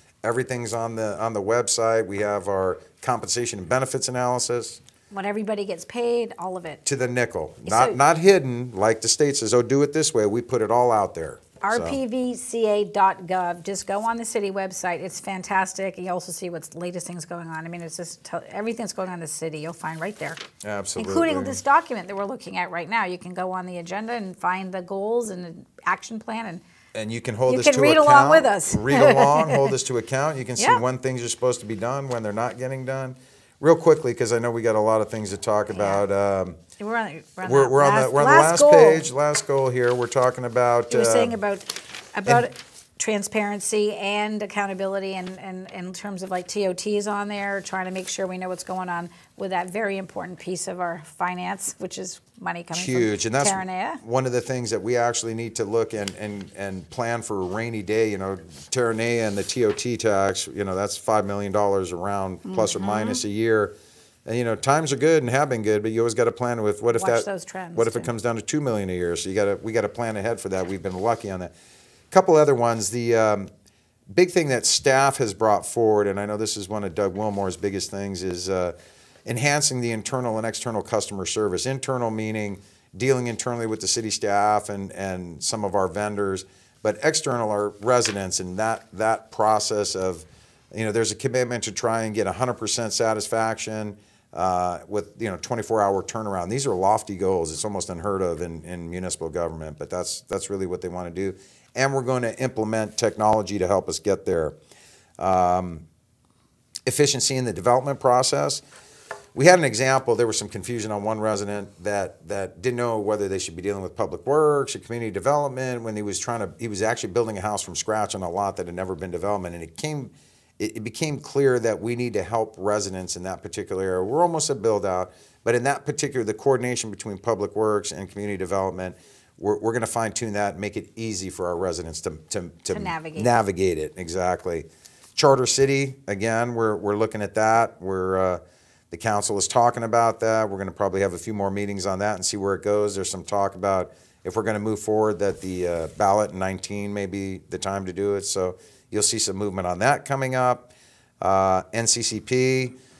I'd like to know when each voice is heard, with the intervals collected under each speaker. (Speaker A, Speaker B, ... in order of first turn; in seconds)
Speaker A: 0.2-4.8, 6.8-12.0, 20.6-21.6, 26.9-36.6, 37.4-41.4, 52.7-63.7, 64.2-71.5, 72.1-73.5, 74.1-78.7, 79.2-104.5, 105.2-105.8, 106.8-108.6, 109.3-152.8
Speaker B: 5.1-6.8, 7.7-8.0, 11.6-20.4, 21.0-26.6, 27.5-29.7, 35.7-36.0, 36.8-39.1, 40.9-54.0, 62.4-63.2, 66.9-68.1, 132.7-133.3